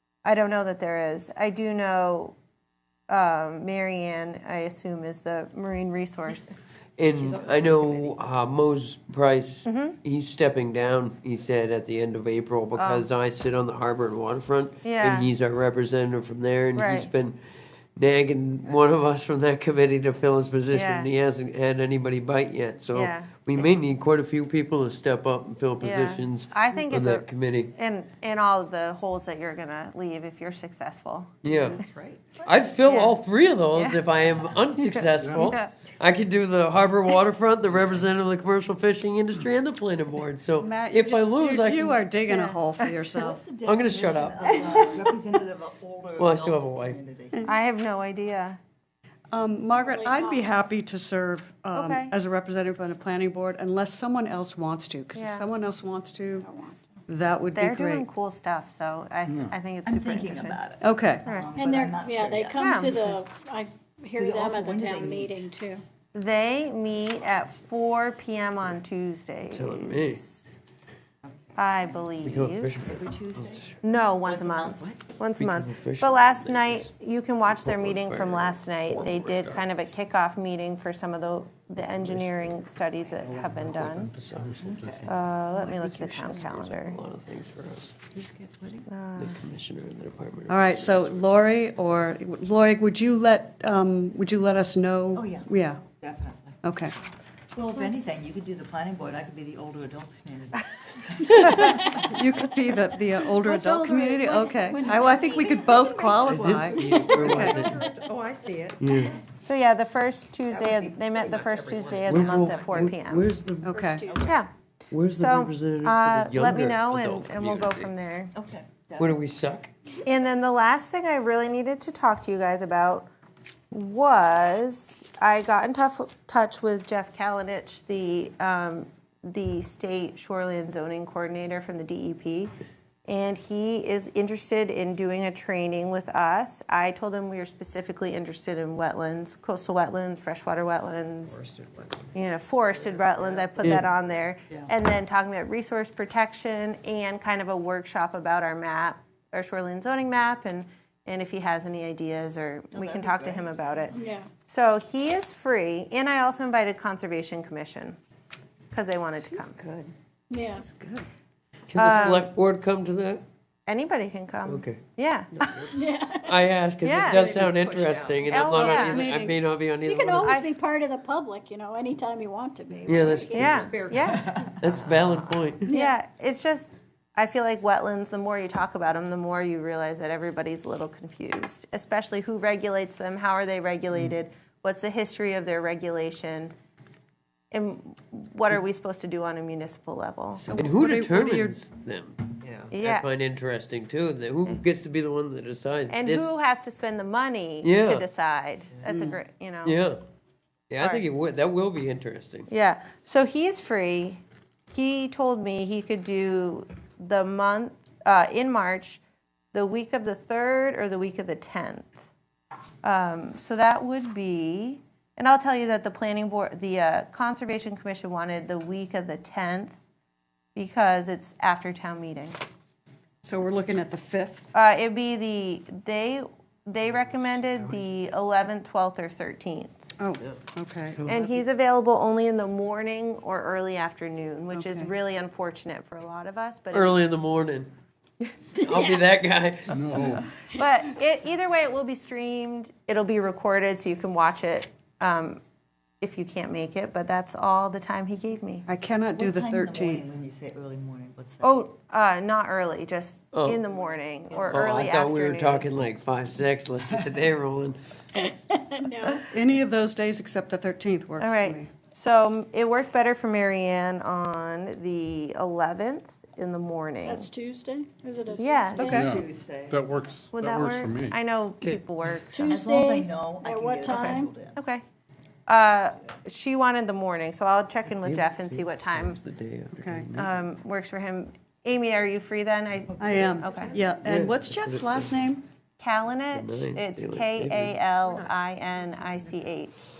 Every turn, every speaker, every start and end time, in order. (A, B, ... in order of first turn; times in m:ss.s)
0:00.2-0:02.4 A
0:03.1-0:06.5 A
0:07.0-0:17.4 B
0:07.2-0:08.1 C
0:09.6-0:10.0 A
0:12.8-0:13.1 A
0:14.8-0:15.3 A
0:16.8-0:17.1 A
0:18.0-0:27.7 B
0:20.7-0:21.1 A
0:22.9-0:23.7 A
0:25.8-0:31.4 A
0:31.4-0:31.8 B
0:31.7-0:32.6 C
0:32.4-0:42.1 B
0:32.8-0:33.2 A
0:33.7-0:34.0 A
0:34.8-0:35.7 A
0:35.2-0:35.5 D
0:40.6-0:43.4 E
0:42.3-0:42.6 A
0:43.2-0:47.4 C
0:43.6-0:44.6 B
0:46.2-0:47.0 B
0:47.4-0:48.6 A
0:49.3-0:56.5 E
0:49.8-0:50.5 F
0:51.7-0:52.1 A
0:55.2-0:55.5 A
0:56.4-0:56.8 F
0:57.1-0:58.0 E
0:57.5-1:00.6 A
0:59.2-0:59.5 D
0:59.8-1:03.2 C
1:00.8-1:01.2 E
1:01.5-1:05.8 F
1:02.6-1:02.9 A
1:04.2-1:05.5 C
1:06.1-1:10.4 A
1:09.5-1:10.2 B
1:11.2-1:11.9 C
1:11.6-1:12.7 A
1:12.2-1:13.7 B
1:12.9-1:13.7 C
1:13.8-1:24.1 A
1:14.2-1:15.0 C
1:15.4-1:16.9 B
1:17.4-1:19.5 B
1:22.0-1:22.4 D
1:23.2-1:25.1 D
1:24.5-1:26.1 C
1:25.0-1:27.0 A
1:26.2-1:28.0 B
1:28.1-1:28.9 C
1:28.9-1:29.4 A
1:29.2-1:31.4 B
1:30.5-1:35.8 E
1:35.1-1:36.6 C
1:36.6-1:36.9 E
1:37.5-1:42.2 C
1:37.8-1:38.2 A
1:41.4-1:47.7 E
1:43.4-1:46.2 F
1:46.1-1:47.8 B
1:46.4-1:49.2 C
1:46.9-1:48.1 F
1:48.8-1:49.2 B
1:49.4-1:53.2 A
1:50.5-1:52.4 C
1:52.0-1:53.7 B
1:53.6-1:54.0 E
1:53.7-1:54.3 F
1:54.1-1:54.3 C
1:54.2-1:54.5 A
1:54.9-1:57.9 B
1:55.2-1:58.3 A
1:58.3-1:59.2 C
1:59.0-1:59.7 B
2:00.0-2:03.1 A
2:03.7-2:12.5 A
2:13.0-2:21.4 A
2:22.1-2:38.0 A
2:32.7-2:34.0 C
2:33.9-2:34.3 F
2:38.7-2:39.6 A
2:40.3-2:40.6 F
2:40.7-2:41.0 E
2:41.7-2:43.2 B
2:41.7-2:42.3 A
2:43.7-2:45.7 A
2:44.4-2:44.8 B
2:45.4-2:45.7 B
2:45.7-2:46.5 F
2:46.2-2:50.4 B
2:46.8-2:47.5 A
2:48.2-2:49.1 A
2:48.4-2:49.4 E
2:49.8-2:53.6 F
2:50.2-2:50.5 A
2:52.8-2:53.9 B
2:53.3-3:06.5 A
2:53.9-2:54.7 C
2:54.6-2:55.7 B
2:55.7-2:55.9 F
3:07.5-3:10.5 A
3:10.4-3:11.6 E
3:10.5-3:16.3 B
3:12.4-3:12.7 C
3:12.7-3:13.1 A
3:15.9-3:19.8 A
3:17.6-3:18.1 B
3:18.9-3:19.2 E
3:19.6-3:20.0 B
3:20.7-3:22.5 B
3:20.8-3:21.0 A
3:22.5-3:24.2 A
3:24.7-3:29.0 A
3:29.5-3:32.0 A
3:32.8-3:39.8 A
3:40.5-3:42.4 A
3:43.2-3:44.5 E
3:44.5-3:49.8 A
3:50.0-3:51.4 E
3:51.1-3:57.0 A
3:54.5-3:54.9 E
3:56.7-3:57.7 B
3:58.6-4:00.2 B
3:58.6-3:59.0 F
3:59.7-4:00.2 D
4:00.5-4:05.4 A
4:06.0-4:08.7 A
4:08.7-4:10.0 E
4:09.1-4:11.6 C
4:11.4-4:15.7 A
4:13.3-4:13.6 B
4:14.4-4:17.8 B
4:18.2-4:19.2 F
4:19.3-4:21.7 E
4:21.2-4:27.3 A
4:27.0-4:28.8 F
4:28.4-4:29.1 A
4:28.8-4:29.1 E
4:28.8-4:29.9 C
4:28.8-4:31.2 D
4:30.3-4:32.6 A
4:32.3-4:34.3 F
4:32.5-4:34.6 C
4:33.8-4:34.8 A
4:35.5-4:39.2 A
4:37.9-4:40.3 B
4:39.7-4:40.1 E
4:40.1-4:43.9 A
4:42.8-4:43.7 C
4:43.0-4:45.4 E
4:44.0-4:45.3 B
4:45.8-4:49.7 A
4:46.3-4:47.8 B